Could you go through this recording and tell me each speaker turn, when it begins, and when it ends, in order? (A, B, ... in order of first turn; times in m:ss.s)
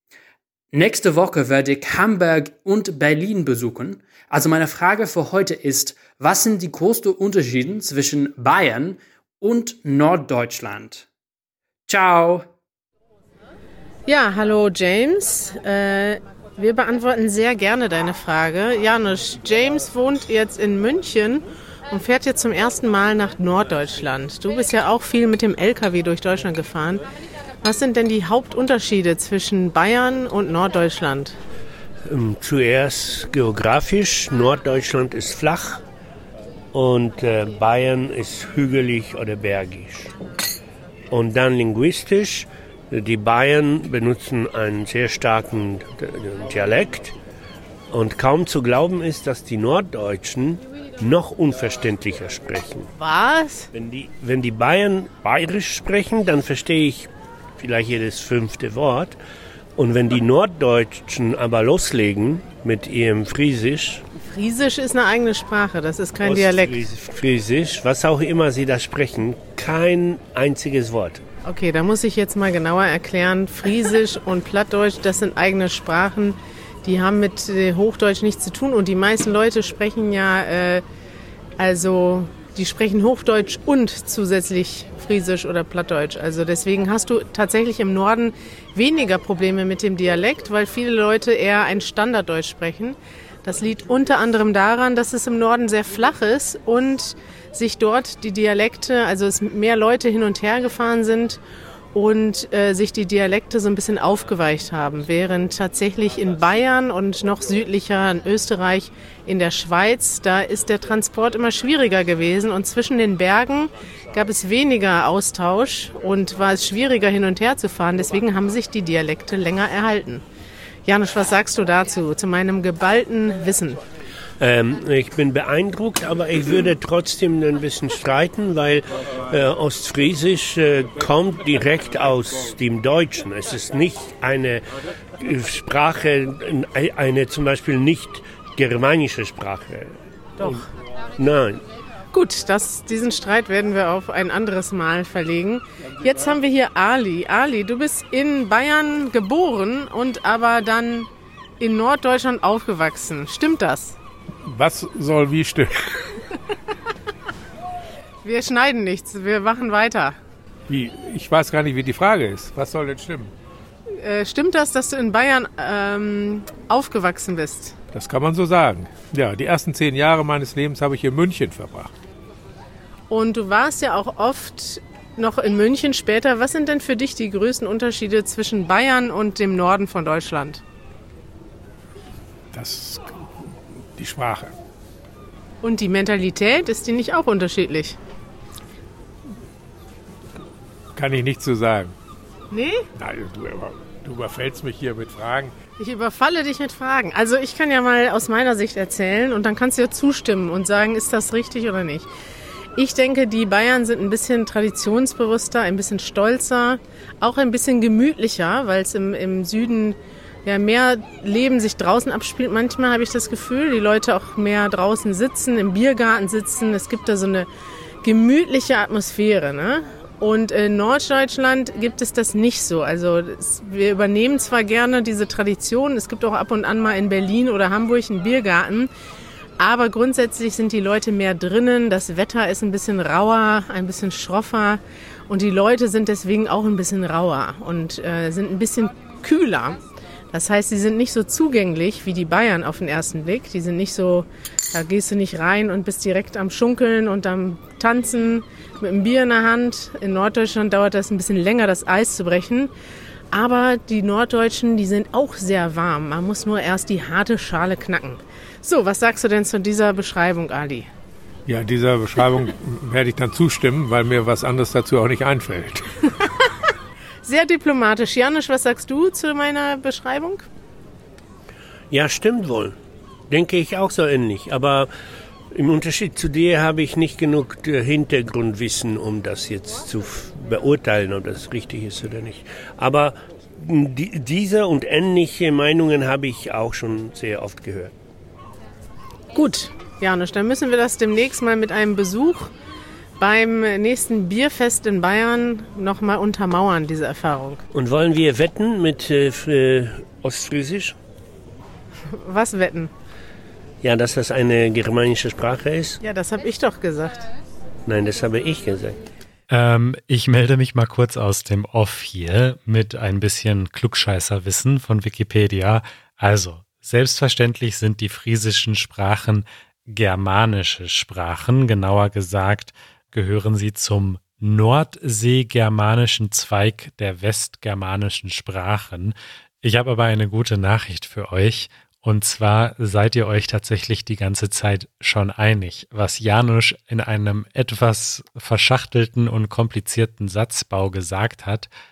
0:00.7-0:11.1 A
0:11.9-0:12.5 A
0:14.1-0:27.0 B
0:27.6-0:31.4 B
0:32.1-0:35.8 C
0:36.7-0:40.1 C
0:41.1-0:47.1 C
0:47.9-0:52.9 C
0:53.0-0:53.7 B
0:53.7-0:59.2 C
0:59.8-1:04.0 C
1:04.2-1:06.8 B
1:06.2-1:11.2 C
1:11.4-1:20.8 B
1:21.6-1:41.4 B
1:41.9-2:00.2 B
2:00.8-2:03.8 B
2:04.4-2:14.6 C
2:15.2-2:20.6 C
2:21.2-2:21.6 C
2:22.1-2:34.0 B
2:34.4-2:36.1 D
2:38.2-2:40.2 B
2:40.7-2:43.3 D
2:44.0-2:47.8 B
2:47.9-2:51.9 D
2:53.1-3:00.6 B
3:02.5-3:03.2 D
3:04.0-3:04.5 D
3:05.6-3:08.0 B
3:11.0-3:11.9 D
3:12.5-3:12.8 B
3:13.0-3:15.5 D
3:15.8-3:22.1 B
3:22.8-3:37.5 B
3:38.0-3:48.9 B
3:49.6-3:59.8 B
4:00.3-4:12.7 B
4:13.3-4:20.9 B
4:21.5-4:25.8 D
4:26.2-4:26.5 B
4:27.2-4:30.4 B
4:31.9-4:32.7 C
4:33.3-4:34.9 C
4:35.5-4:47.9 C
4:49.3-4:52.5 B
4:53.2-4:57.6 B
4:57.7-5:01.0 C
5:02.1-5:02.9 B
5:03.8-5:06.0 C
5:06.0-5:07.3 B
5:07.8-5:09.0 C
5:09.5-5:41.7 E